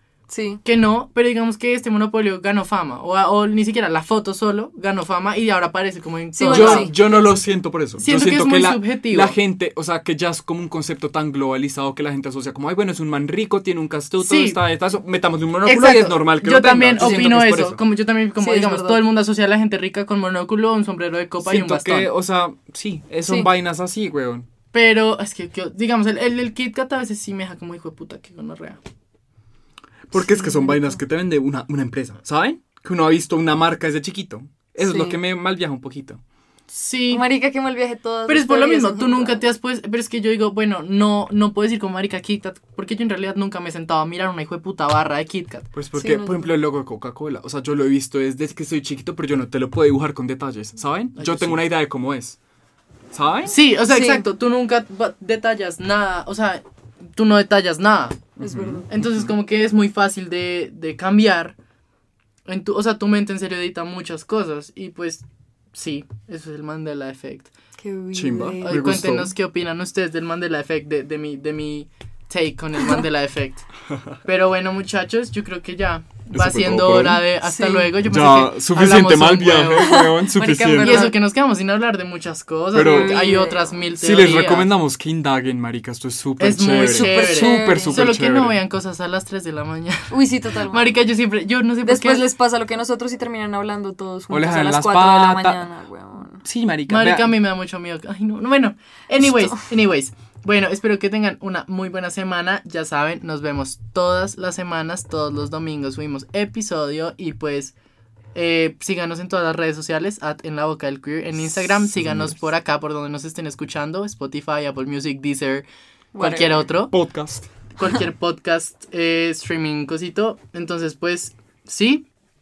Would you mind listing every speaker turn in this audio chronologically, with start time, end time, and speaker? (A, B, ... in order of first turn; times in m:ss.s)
0:00.3-0:00.6 A
0:00.6-0:06.9 B
0:06.4-0:06.9 A
0:06.5-0:17.8 C
0:08.0-0:09.4 B
0:14.2-0:14.6 B
0:15.6-0:22.1 B
0:17.0-0:17.3 A
0:18.4-0:19.0 A
0:21.4-0:24.5 C
0:24.7-0:28.8 B
0:30.1-0:36.2 C
0:30.4-0:30.8 A
0:34.8-0:35.2 A
0:36.7-0:37.2 B
0:37.1-0:39.4 A
0:38.3-0:45.7 B
0:45.7-0:52.4 C
0:46.0-0:46.4 A
0:51.2-0:51.6 B
0:53.1-0:53.6 C
0:53.5-0:56.6 B
0:53.9-0:54.2 A
0:57.2-0:58.2 B
0:58.4-0:59.3 C
0:58.4-0:58.9 A
0:58.9-1:01.6 B
1:02.5-1:07.5 B
1:07.8-1:08.7 A
1:08.1-1:09.3 C
1:08.6-1:13.7 B
1:14.2-1:20.0 B
1:16.3-1:17.2 C
1:17.4-1:17.9 A
1:18.0-1:21.1 C
1:19.8-1:21.2 A
1:20.8-1:24.7 B
1:22.7-1:23.2 C
1:22.8-1:23.8 A
1:24.0-1:28.6 C
1:26.4-1:30.2 B
1:26.8-1:28.0 A
1:30.1-1:31.0 A
1:30.7-1:32.3 B
1:31.8-1:36.4 A
1:34.3-1:35.7 C
1:36.4-1:37.3 C
1:36.9-1:47.7 B
1:39.3-1:39.6 A
1:48.4-1:55.7 B
1:51.8-1:52.4 C
1:56.1-1:56.7 A
1:56.2-1:56.9 B
1:56.9-1:57.5 C
1:57.8-2:02.1 B